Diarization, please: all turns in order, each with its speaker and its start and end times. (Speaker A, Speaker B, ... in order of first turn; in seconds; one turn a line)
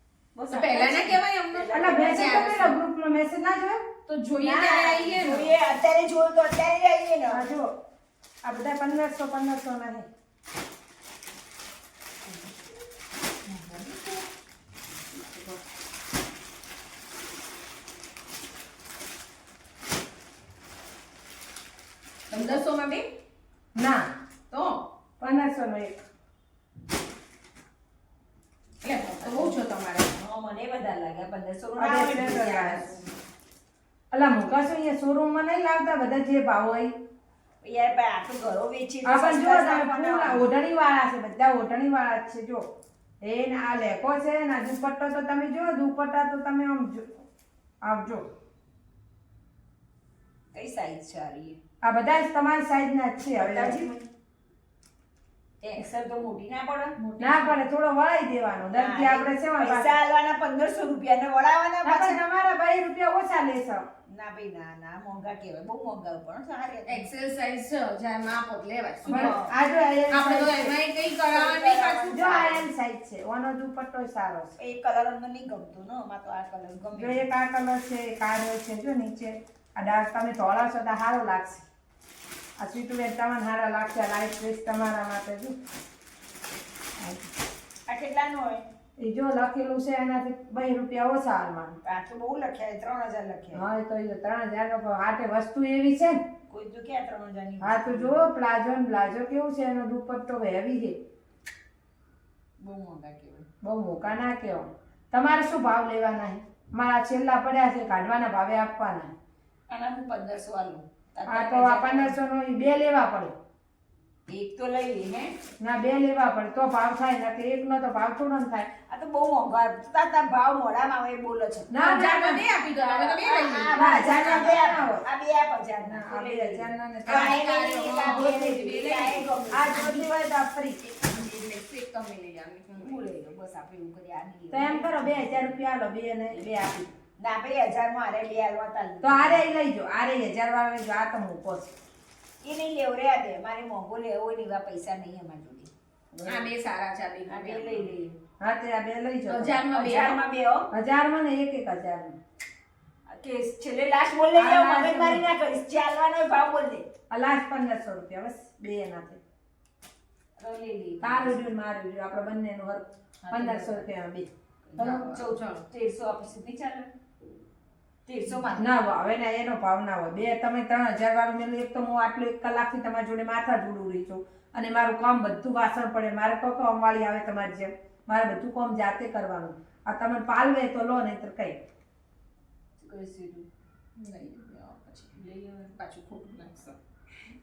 Speaker A: 0.3-2.2
Speaker B: 0.5-2.8
Speaker C: 1.7-3.9
Speaker B: 4.1-5.5
Speaker C: 4.4-4.8
Speaker A: 4.7-7.5
Speaker C: 7.3-7.7
Speaker C: 8.4-10.1
Speaker A: 13.5-14.0
Speaker B: 15.2-15.5
Speaker B: 22.3-23.1
Speaker C: 23.8-24.1
Speaker B: 24.5-24.8
Speaker C: 25.2-25.9
Speaker B: 28.8-30.1
Speaker A: 29.2-29.5
Speaker A: 30.1-33.1
Speaker C: 31.8-32.9
Speaker C: 34.1-36.9
Speaker A: 37.6-40.5
Speaker C: 39.0-42.6
Speaker C: 43.2-47.2
Speaker C: 47.8-48.2
Speaker A: 50.5-51.6
Speaker C: 51.8-53.8
Speaker A: 53.3-54.1
Speaker A: 55.6-57.0
Speaker B: 57.0-57.6
Speaker C: 57.2-59.9
Speaker A: 58.7-62.2
Speaker C: 61.8-63.8
Speaker A: 64.1-67.1
Speaker B: 66.8-69.4
Speaker A: 69.0-69.5
Speaker C: 69.1-70.7
Speaker B: 70.1-72.2
Speaker A: 71.3-72.6
Speaker C: 72.1-74.5
Speaker A: 74.6-77.2
Speaker C: 76.9-81.6
Speaker C: 82.6-85.5
Speaker C: 87.0-87.3
Speaker A: 87.9-88.6
Speaker C: 89.0-91.8
Speaker A: 91.8-93.6
Speaker C: 93.5-96.2
Speaker A: 96.5-98.2
Speaker C: 97.6-101.0
Speaker A: 102.6-103.5
Speaker C: 103.6-109.1
Speaker A: 109.7-112.2
Speaker C: 111.3-113.3
Speaker A: 114.3-115.3
Speaker C: 115.6-118.7
Speaker A: 118.9-121.7
Speaker C: 121.7-122.4
Speaker B: 121.8-124.6
Speaker A: 122.8-130.1
Speaker C: 123.7-125.0
Speaker C: 125.8-127.4
Speaker B: 127.0-129.2
Speaker C: 128.0-128.5
Speaker C: 129.5-130.8
Speaker B: 130.9-133.1
Speaker A: 132.8-135.5
Speaker C: 134.5-136.9
Speaker A: 137.2-139.5
Speaker C: 139.0-141.7
Speaker A: 142.4-145.7
Speaker C: 146.1-146.5
Speaker B: 146.2-147.9
Speaker A: 147.3-148.2
Speaker C: 148.4-149.6
Speaker B: 149.3-150.2
Speaker A: 149.7-150.7
Speaker C: 150.7-152.2
Speaker A: 153.1-156.8
Speaker C: 154.3-155.2
Speaker C: 157.1-159.2
Speaker A: 160.4-161.5
Speaker C: 161.0-164.3
Speaker A: 163.2-163.9
Speaker A: 164.7-166.9
Speaker B: 164.8-165.6
Speaker C: 164.8-165.0
Speaker A: 168.1-168.7
Speaker C: 168.5-181.6
Speaker A: 182.8-183.5
Speaker B: 184.0-186.8
Speaker A: 185.2-185.7